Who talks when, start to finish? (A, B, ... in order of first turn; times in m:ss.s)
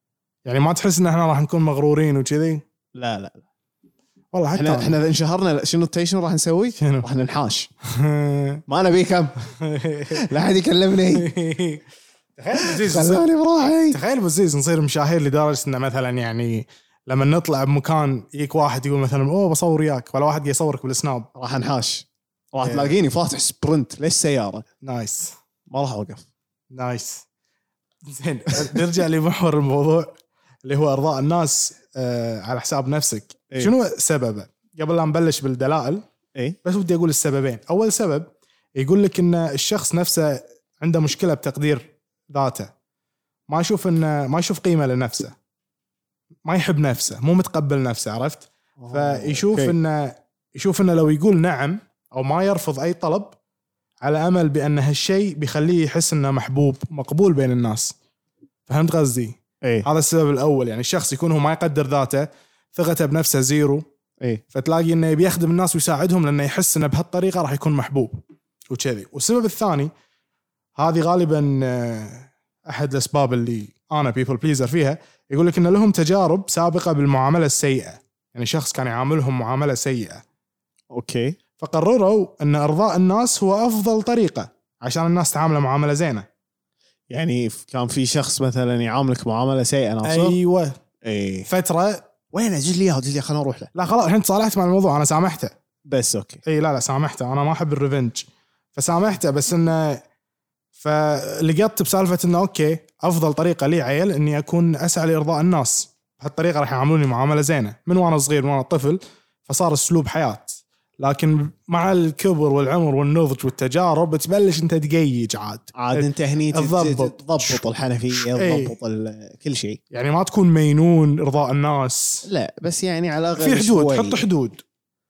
0:00.4-0:02.6 A
0:03.0-0:03.5 B
0:04.3-0:04.9 A
0:04.6-0:07.7 B
0:06.8-0:07.1 A
0:07.9-0:08.6 A
0:08.7-0:09.4 B
0:09.6-0:10.3 A
0:10.1-0:11.3 B
0:11.2-0:11.8 A
0:12.4-0:13.2 A
0:12.5-0:14.0 B
0:13.9-0:21.3 A
0:21.4-0:24.7 B
0:22.6-0:23.0 A
0:24.8-0:25.4 A
0:25.7-0:26.3 B
0:26.7-0:27.2 A
0:28.0-0:30.1 A
0:30.6-0:36.0 A
0:36.6-0:42.7 A
0:43.5-0:45.3 A
0:46.4-0:53.4 A
0:48.8-0:49.8 B
0:54.0-0:57.9 A
0:58.7-1:03.8 A
1:04.5-1:09.9 A
1:10.8-1:20.2 A
1:20.9-1:21.4 B
1:21.6-1:26.3 A
1:27.1-1:30.4 B
1:30.0-1:30.8 A
1:31.0-1:31.5 B
1:31.5-1:32.0 A
1:32.3-1:33.7 B
1:33.7-1:35.5 A
1:35.9-1:36.4 B
1:36.4-1:40.0 A
1:40.8-1:57.6 A
1:55.8-1:59.8 B
1:58.1-1:58.7 A
1:59.9-2:02.2 A
2:02.2-2:04.2 B
2:03.4-2:04.6 A